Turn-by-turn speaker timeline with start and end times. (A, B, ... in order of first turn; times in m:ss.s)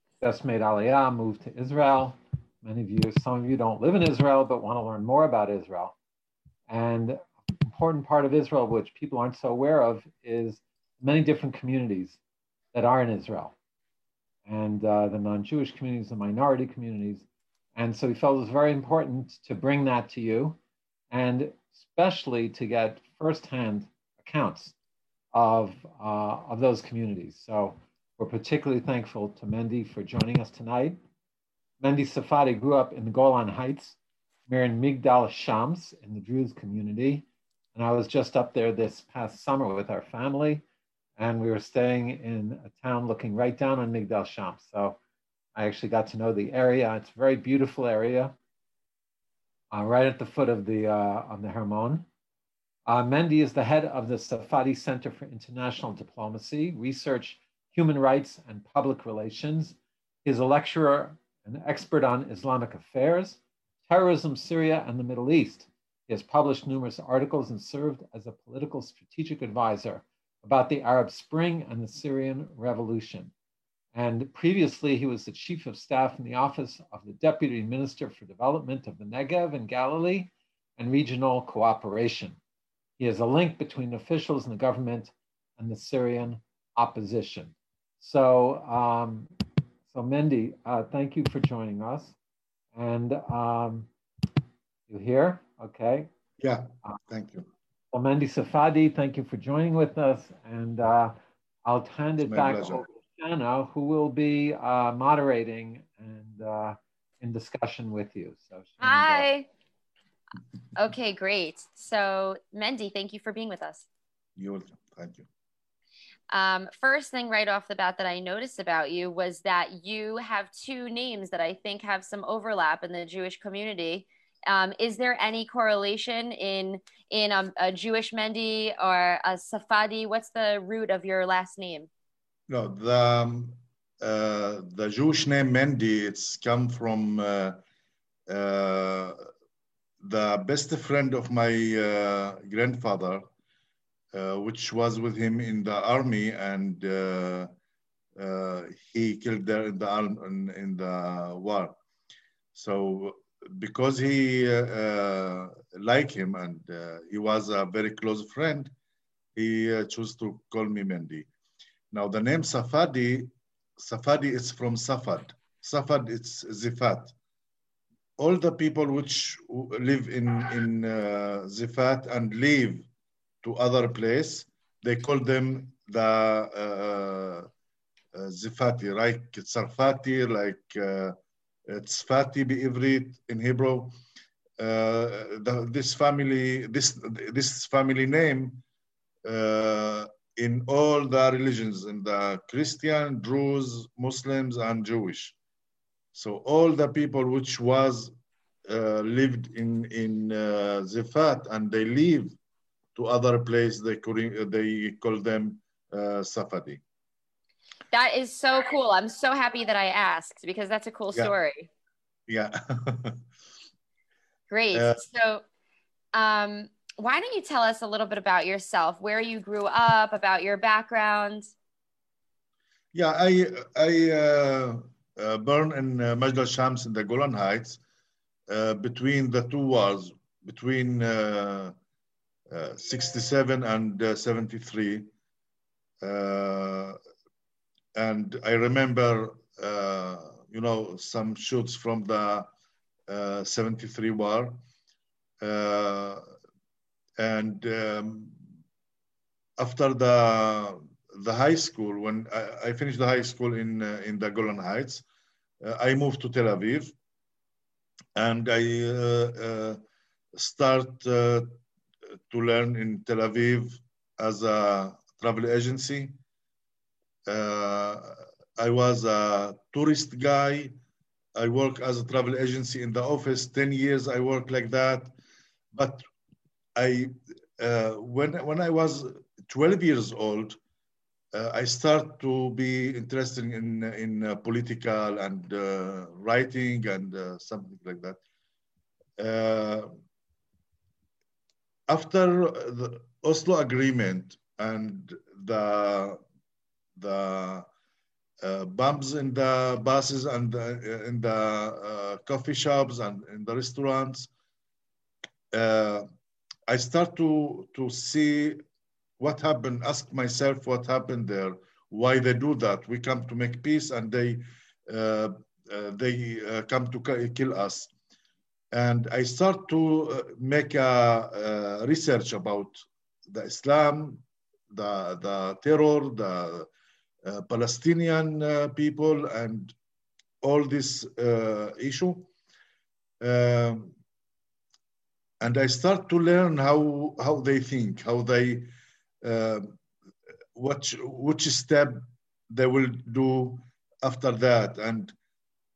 0:00.2-0:06.0 A
0:06.7-0:12.2 A
0:12.7-0:13.6 A
0:14.5-0:20.6 A
0:21.1-0:24.8 A
0:25.3-0:31.0 A
0:31.8-0:40.6 A
0:41.2-0:45.0 A
0:45.6-0:48.4 A
0:49.7-0:52.1 A
0:52.9-1:13.3 A
1:13.9-1:22.4 A
1:23.0-1:29.3 A
1:29.9-1:32.2 A
1:32.7-1:33.9 A
1:34.9-1:36.1 A
1:36.4-1:37.5 B
1:37.9-1:41.1 A
1:41.6-1:49.3 A
1:42.2-1:42.8 B
1:48.8-1:49.4 C
1:50.8-1:53.9 C
1:54.4-1:55.3 B
1:56.3-2:11.9 C
2:12.5-2:17.6 B
2:18.3-2:19.2 B
2:20.0-2:23.3 B
2:24.1-2:27.5 B
2:28.2-2:31.8 B
2:32.5-2:38.7 B
2:39.4-2:41.3 B
2:41.9-2:47.1 B
2:48.2-2:52.9 B
2:53.4-2:57.5 B
2:58.1-3:01.2 B
3:01.7-3:03.9 B
3:04.6-3:08.6 B
3:09.2-3:15.4 B
3:16.1-3:18.1 B
3:18.7-3:22.4 B
3:23.0-3:26.8 B
3:27.9-3:31.7 C
3:32.3-3:33.2 B
3:34.5-3:35.4 C
3:34.7-3:35.0 B
3:36.1-3:41.5 C
3:42.9-3:47.8 B
3:48.5-3:51.8 B
3:52.5-3:55.1 B
3:56.0-3:57.0 B
3:58.0-4:02.5 B
4:03.1-4:04.6 B
4:05.4-4:06.2 B
4:07.2-4:08.4 B
4:09.6-4:15.0 B
4:15.6-4:16.9 B
4:18.2-4:19.8 B
4:20.3-4:21.6 B
4:22.3-4:26.2 B
4:27.3-4:30.7 B
4:31.4-4:35.1 B
4:35.7-4:36.0 B
4:36.8-4:40.6 B
4:41.3-4:48.2 B
4:49.2-4:49.9 B
4:51.9-4:56.2 B
4:57.0-4:57.7 B
4:58.4-5:04.3 B
5:05.5-5:06.0 B
5:06.7-5:08.6 B
5:09.2-5:17.9 B
5:18.7-5:26.7 B
5:27.2-5:29.7 B
5:30.4-5:32.3 B
5:33.2-5:33.9 B
5:35.4-5:38.7 B
5:39.2-5:39.8 B
5:40.6-5:45.2 B